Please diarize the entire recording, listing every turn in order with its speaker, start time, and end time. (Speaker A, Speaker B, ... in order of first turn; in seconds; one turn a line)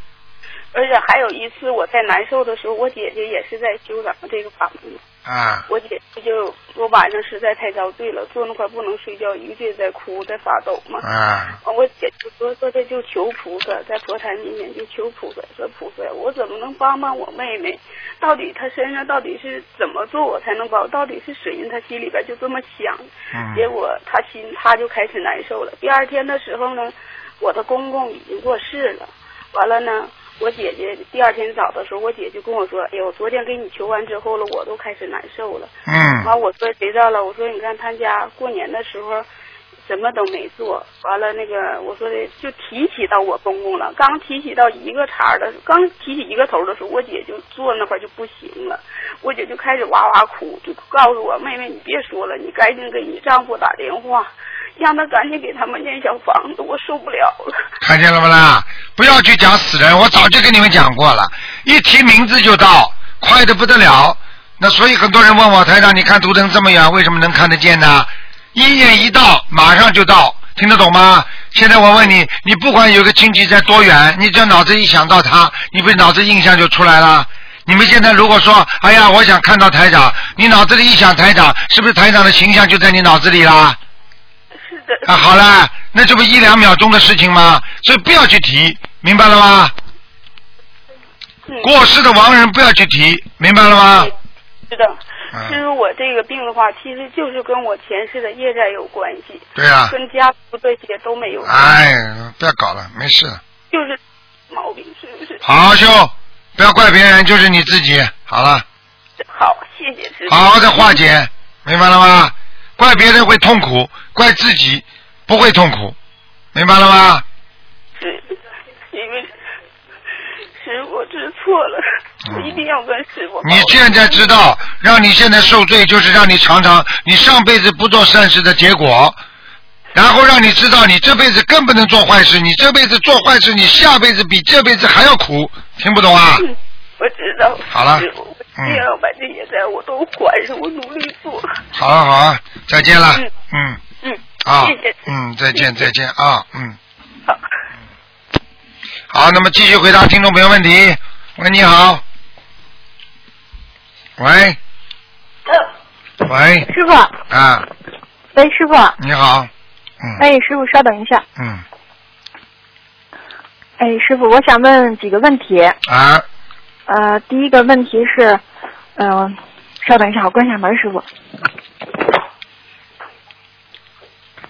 Speaker A: 0.7-5.0
Speaker B: 5.2-5.7
Speaker A: 5.7-11.0
Speaker B: 11.0-11.6
Speaker A: 11.7-39.2
Speaker B: 23.3-23.6
Speaker B: 35.9-36.3
Speaker A: 39.9-57.5
Speaker B: 57.8-83.8
Speaker A: 84.7-85.1
Speaker B: 85.0-89.7
Speaker B: 91.6-94.1
Speaker A: 94.7-101.7
Speaker B: 95.3-95.6
Speaker B: 99.6-99.9
Speaker B: 101.5-103.4
Speaker A: 103.7-104.0
Speaker A: 104.5-105.4
Speaker B: 105.4-108.6
Speaker A: 109.3-111.0
Speaker B: 110.3-116.0
Speaker B: 116.5-117.2
Speaker A: 118.0-118.4
Speaker A: 118.9-119.3
Speaker A: 120.6-124.3
Speaker B: 122.2-122.6
Speaker B: 123.4-129.2
Speaker B: 129.9-136.5
Speaker A: 136.4-141.6
Speaker B: 137.7-138.1
Speaker B: 138.6-138.8
Speaker B: 141.7-143.8
Speaker A: 144.0-144.9
Speaker B: 144.4-146.8
Speaker B: 149.1-152.0
Speaker B: 154.2-154.6
Speaker B: 156.2-156.7
Speaker C: 156.7-157.1
Speaker B: 157.3-157.7
Speaker C: 158.3-159.0
Speaker B: 159.0-160.2
Speaker C: 160.2-161.2
Speaker B: 161.4-161.6
Speaker C: 163.8-165.8
Speaker B: 165.9-166.2
Speaker C: 166.9-168.4
Speaker C: 169.0-171.1